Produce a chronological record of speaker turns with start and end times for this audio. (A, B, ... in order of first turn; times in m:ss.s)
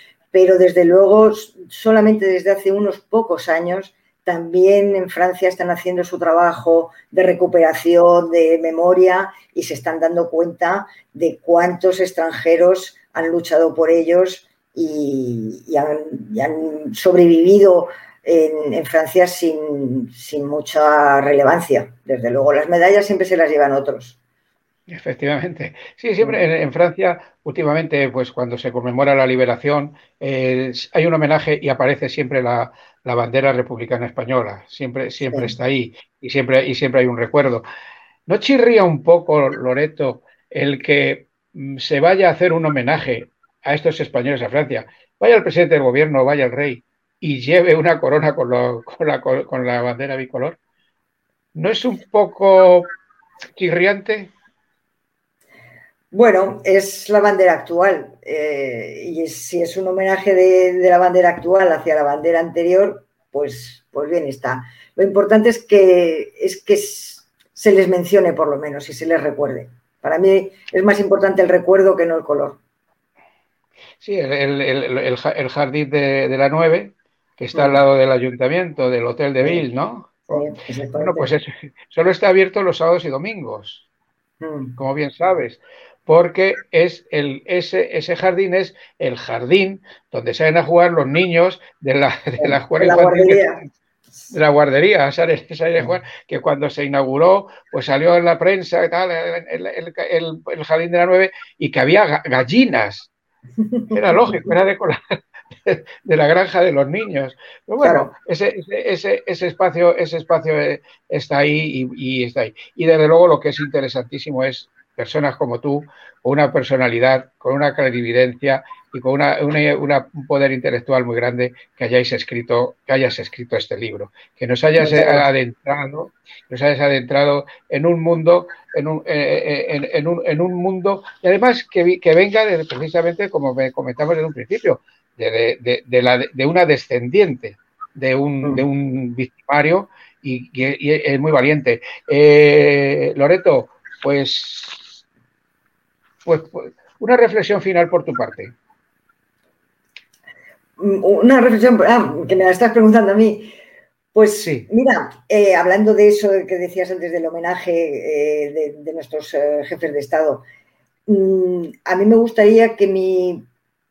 0:00.3-0:24.2 A
0:24.9-0:37.6 B
0:35.2-0:35.6 A
0:38.3-0:50.6 B
0:51.6-0:52.9 B
0:53.6-0:54.3 B
0:56.1-1:12.6 A
1:14.0-1:20.4 B
1:17.5-1:17.8 A
1:20.3-1:21.3 A
1:21.0-1:23.9 B
1:24.4-1:24.8 A
1:24.8-1:33.5 B
1:32.4-1:33.6 A
1:34.3-1:43.1 B
1:43.9-2:25.0 B
1:47.8-1:48.1 A
2:04.8-2:05.3 A
2:26.3-2:28.5 B
2:30.8-2:33.6 A
2:34.1-2:40.5 A
2:34.4-2:34.7 B
2:41.1-2:43.5 A